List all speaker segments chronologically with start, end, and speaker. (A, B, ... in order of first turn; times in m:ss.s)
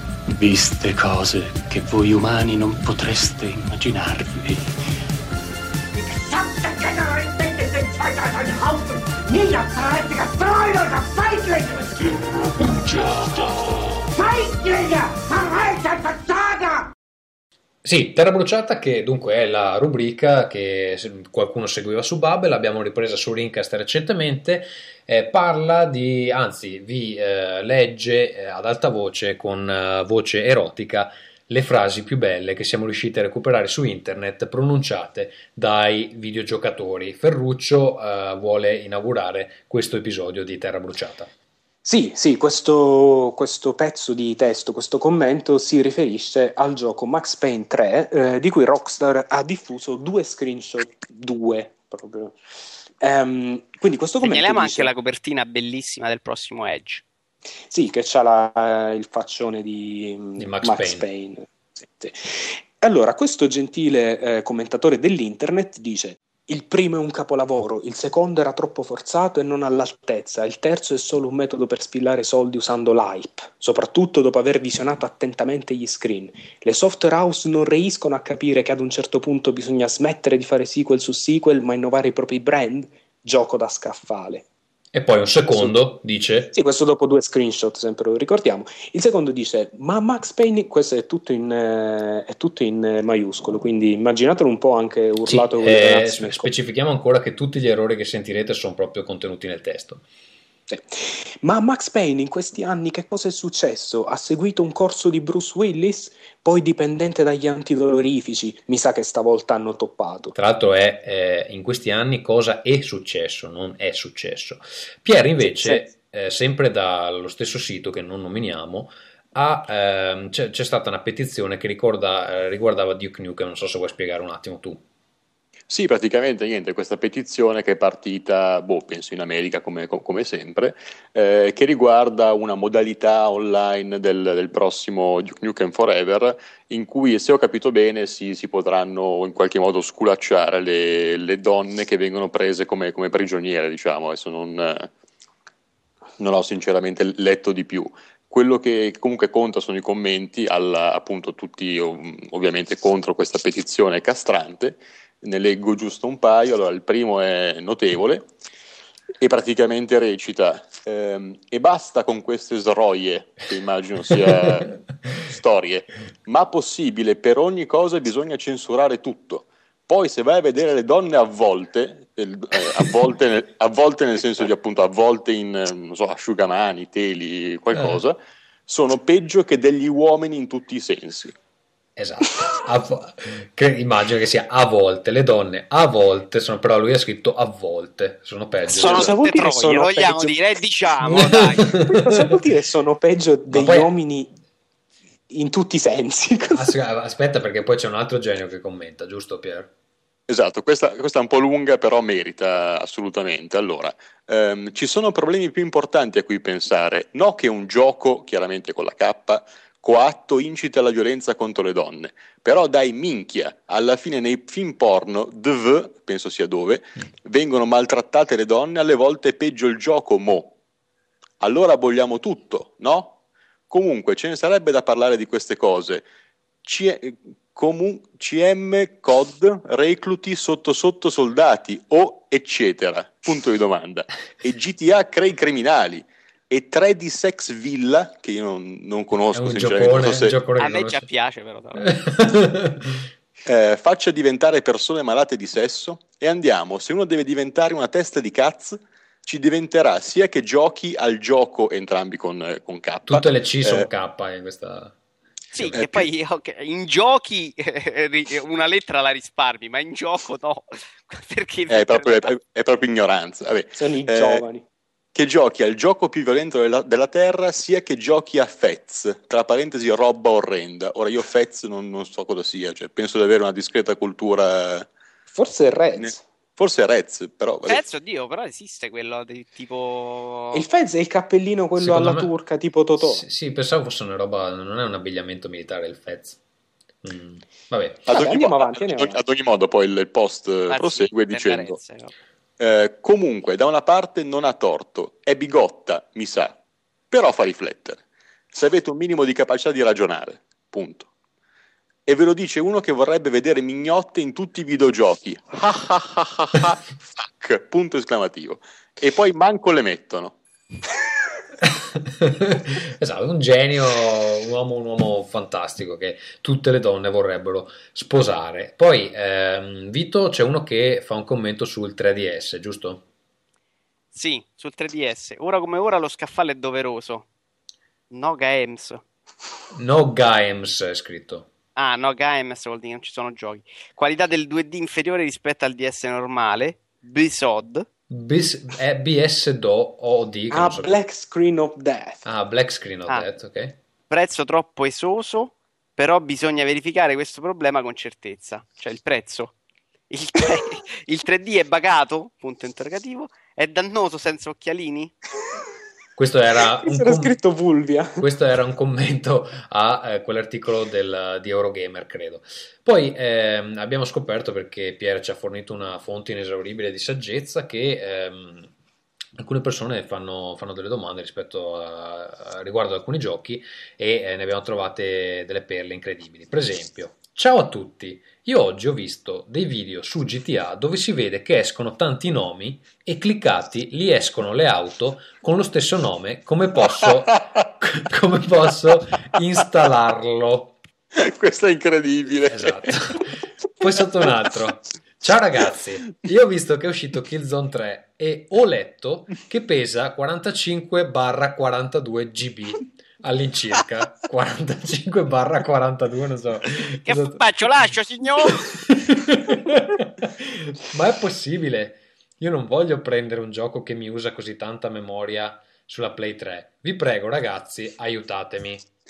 0:00.3-0:04.6 A
0:05.9-0:16.9 A
0:17.8-0:41.3 B
0:41.8-0:52.4 C
0:53.0-0:54.9 C
0:54.2-0:57.0 D
0:57.7-1:24.4 C
1:00.4-1:01.1 B
1:24.9-1:26.6 B
1:26.5-1:36.5 C
1:35.2-1:40.0 B
1:40.7-1:50.3 C
1:50.3-2:04.8 B
2:05.7-2:24.9 E
2:26.2-2:38.3 E
2:39.2-3:01.3 E
2:57.7-2:58.0 B
3:02.0-3:09.1 B
3:08.7-3:11.7 D
3:08.8-3:10.3 C
3:11.5-3:12.1 B
3:11.7-3:14.3 C
3:13.5-3:13.9 B
3:15.3-3:16.7 C
3:16.5-3:19.7 B
3:20.3-3:40.5 E
3:41.4-3:43.2 E
3:43.7-3:46.0 E
3:46.6-4:00.3 E
3:59.3-4:01.0 B
4:00.6-4:01.9 D
4:01.8-4:03.1 B
4:03.4-4:13.9 E
4:13.1-4:14.9 B
4:15.5-4:22.3 D
4:15.6-4:15.8 B
4:15.7-4:16.1 E
4:21.7-4:24.4 E
4:23.8-4:24.6 C
4:25.1-4:34.9 E
4:35.3-4:36.2 C
4:36.0-4:37.8 E
4:37.7-4:40.6 D
4:40.5-4:43.2 C
4:41.8-4:42.3 B
4:43.0-4:46.4 B
4:47.0-4:48.1 B
4:48.1-4:49.2 C
4:48.1-4:51.8 E
4:50.7-4:52.1 D
4:52.6-4:56.6 E
4:57.1-4:58.0 E
4:58.5-5:01.1 E
5:02.0-5:10.4 E
5:11.6-5:23.0 B
5:24.1-5:27.3 D
5:28.1-5:29.0 D
5:29.7-5:31.5 B
5:31.8-5:37.8 D
5:38.1-5:40.9 B
5:40.5-5:42.2 C
5:42.2-5:43.8 B
5:44.1-5:49.5 D
5:50.1-5:55.1 D
5:56.2-5:57.4 B
5:56.8-5:58.2 C
5:58.2-6:08.7 B
6:09.4-6:30.8 B
6:27.4-6:27.6 E
6:31.1-6:33.2 E
6:32.5-6:47.4 B
6:47.0-6:48.7 D
6:48.6-6:58.9 B